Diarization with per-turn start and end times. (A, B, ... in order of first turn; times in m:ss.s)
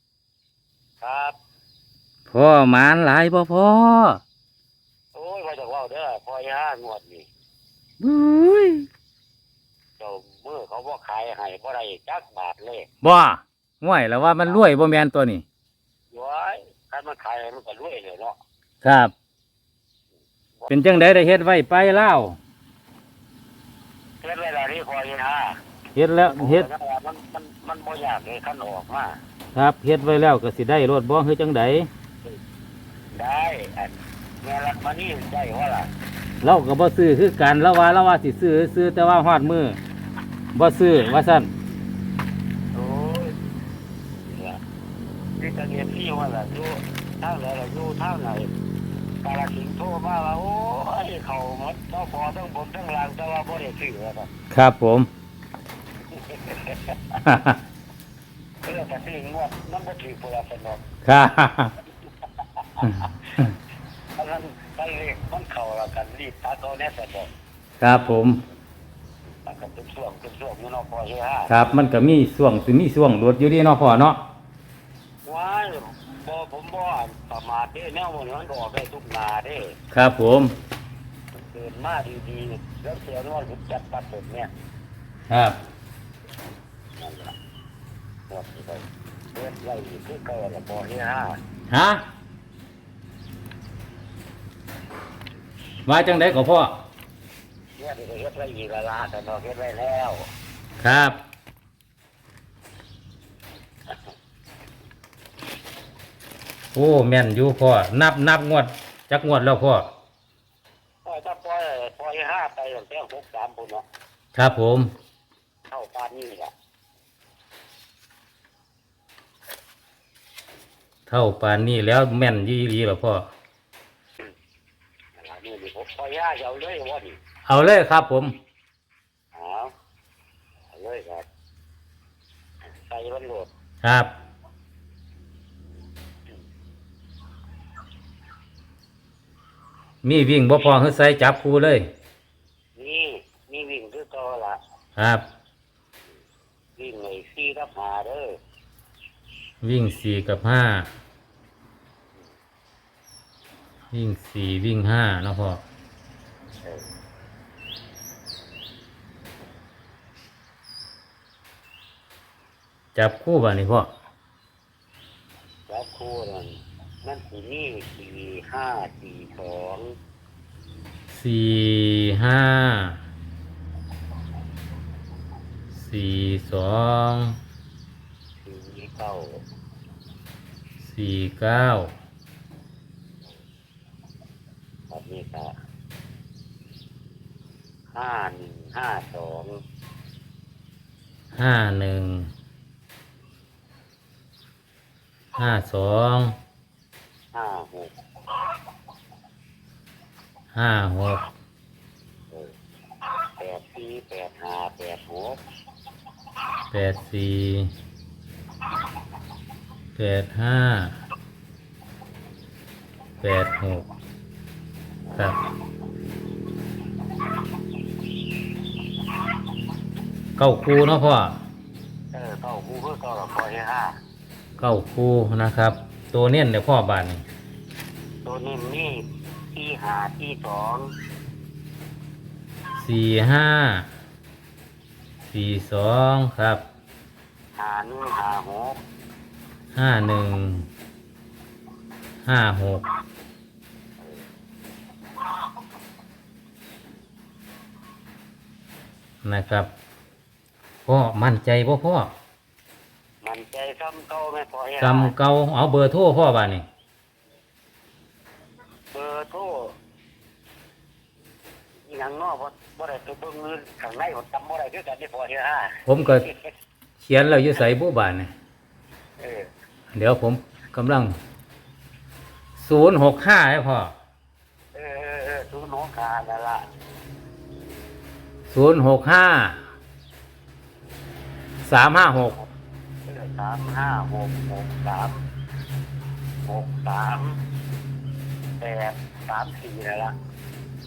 0:01.0-0:01.4 A
0:02.3-0:04.2 B
0:05.1-0:07.3 A
0:08.0-0:08.9 B
0:10.0-0:12.9 A
0:13.0-0:15.4 B
0:16.1-0:18.4 A
0:18.8-0:19.1 B
0:20.7-0:22.4 B
0:24.2-0:25.6 A
0:26.0-0:26.7 B
0:26.3-0:29.2 A
0:29.6-0:31.9 B
0:33.1-0:35.9 A
0:36.4-0:39.8 B
0:40.6-0:41.5 B
0:42.7-0:43.4 A
0:44.2-0:44.6 A
0:45.4-0:48.5 A
0:49.2-0:54.3 A
0:54.5-0:55.1 B
0:56.1-0:57.2 A
0:57.2-0:57.6 B
0:58.6-1:00.8 A
1:01.0-1:01.7 B
1:02.4-1:03.3 A
1:02.8-1:03.5 B
1:04.2-1:07.3 A
1:07.8-1:08.4 B
1:09.4-1:11.5 A
1:11.5-1:14.2 B
1:15.2-1:19.8 A
1:19.9-1:20.5 B
1:21.4-1:24.5 A
1:25.3-1:25.6 B
1:27.0-1:27.3 A
1:28.3-1:31.4 A
1:31.7-1:32.0 B
1:35.9-1:36.7 B
1:37.8-1:40.3 A
1:40.8-1:41.2 B
1:46.8-1:49.9 B
1:51.0-1:53.8 A
1:54.4-1:54.9 B
1:55.7-1:56.5 A
2:01.1-2:03.3 B
2:05.2-2:07.2 A
2:07.5-2:08.3 B
2:09.3-2:09.7 A
2:10.7-2:11.3 A
2:12.7-2:13.5 A
2:13.8-2:14.1 B
2:20.0-2:21.9 B
2:22.8-2:24.6 A
2:25.0-2:25.2 B
2:26.8-2:28.4 A
2:29.6-2:30.9 B
2:33.9-2:35.6 B
2:43.0-2:43.9 B
2:45.7-2:50.0 A
2:51.1-2:53.0 B
2:55.7-2:57.4 B
2:58.4-2:59.4 A
3:00.8-3:01.9 B
3:04.9-3:05.5 A
3:07.9-3:09.6 A
3:11.3-3:12.3 B
3:15.4-3:16.3 B
3:17.3-3:17.9 A
3:20.5-3:21.3 B
3:23.4-3:25.4 A
3:26.7-3:27.7 B
3:30.0-3:31.0 B
3:33.2-3:33.9 B
3:40.4-3:41.4 B
3:42.1-3:44.0 A
3:44.6-3:47.2 B
3:48.2-3:50.9 A
3:52.8-3:53.9 B
3:55.3-3:56.6 B
3:57.6-3:58.8 A
3:59.8-4:00.7 B
4:02.3-4:02.8 B
4:04.0-4:04.2 A
4:09.2-4:09.7 B
4:10.9-4:12.1 B
4:13.2-4:15.1 A
4:14.8-4:16.6 B
4:18.9-4:19.8 A
4:21.9-4:26.5 A
4:25.9-4:26.3 B
4:27.0-4:28.3 B
4:29.2-4:29.5 A
4:29.9-4:31.1 B
4:32.6-4:33.9 B
4:34.7-4:36.7 A
4:38.5-4:39.6 B
4:41.6-4:42.4 B
4:43.1-4:45.2 A
4:46.4-4:47.4 A
4:48.6-4:50.2 A